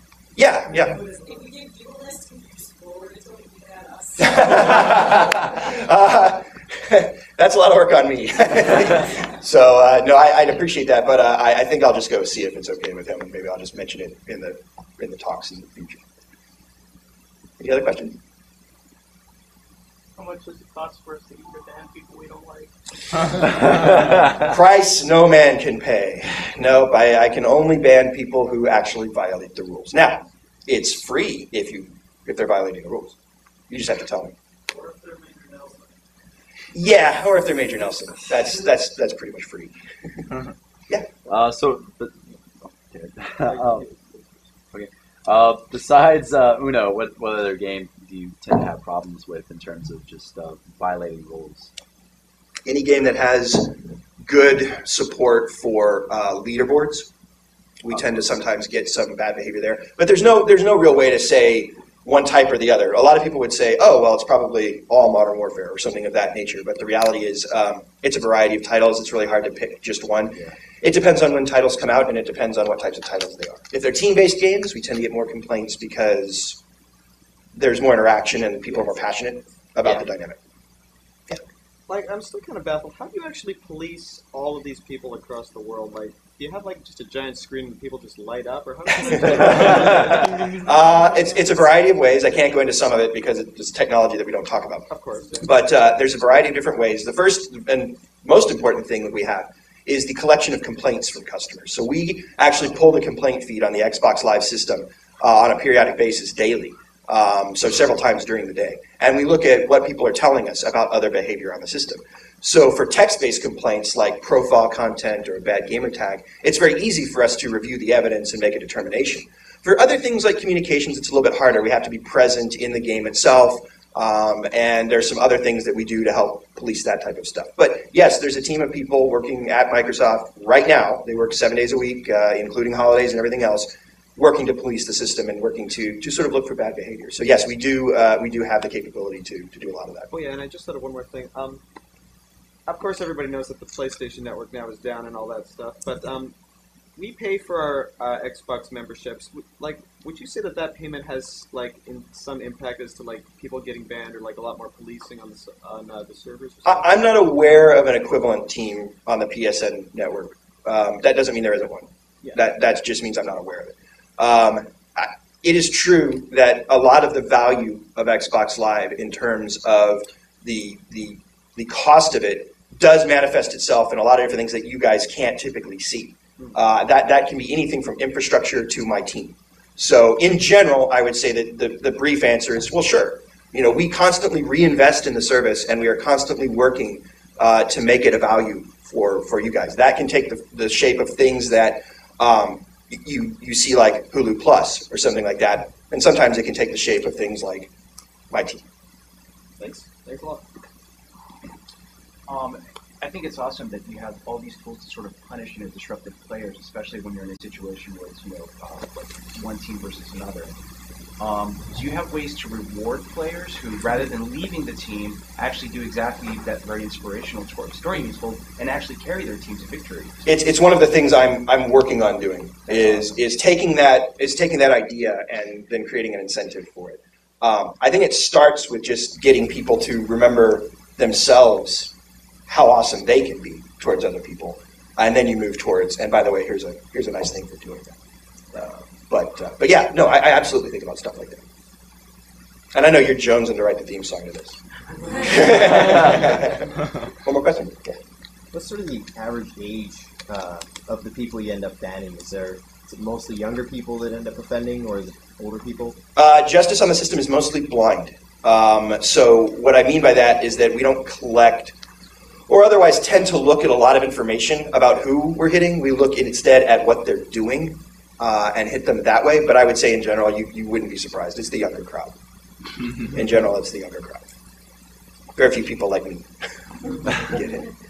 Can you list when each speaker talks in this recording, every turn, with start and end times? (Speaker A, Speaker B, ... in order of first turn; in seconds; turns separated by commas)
Speaker A: 0.3-1.0, Speaker B: 1.1-4.8, Speaker A: 4.2-16.0, Speaker A: 17.6-18.2, Speaker C: 20.1-22.7, Speaker A: 24.4-33.2, Speaker A: 33.7-34.3, Speaker C: 34.7-36.0, Speaker A: 36.7-39.7, Speaker D: 41.2-43.9, Speaker E: 43.5-44.2, Speaker D: 44.7-51.7, Speaker A: 52.6-57.1, Speaker A: 57.8-76.6, Speaker A: 77.5-80.4, Speaker E: 81.9-90.4, Speaker A: 89.6-94.8, Speaker E: 94.9-95.5, Speaker A: 95.4-140.1, Speaker E: 140.1-141.6, Speaker E: 142.7-146.3, Speaker E: 146.9-156.8, Speaker A: 156.6-197.7, Speaker A: 198.3-198.6, Speaker E: 199.6-200.4, Speaker F: 202.3-210.5, Speaker F: 211.2-220.2, Speaker A: 220.2-231.9, Speaker A: 232.5-237.9, Speaker A: 238.5-241.4, Speaker A: 242.7-244.6, Speaker A: 245.1-248.0, Speaker G: 248.5-256.0, Speaker A: 256.1-261.7, Speaker A: 262.5-272.1, Speaker A: 273.0-274.3, Speaker A: 275.4-276.3, Speaker A: 277.1-277.7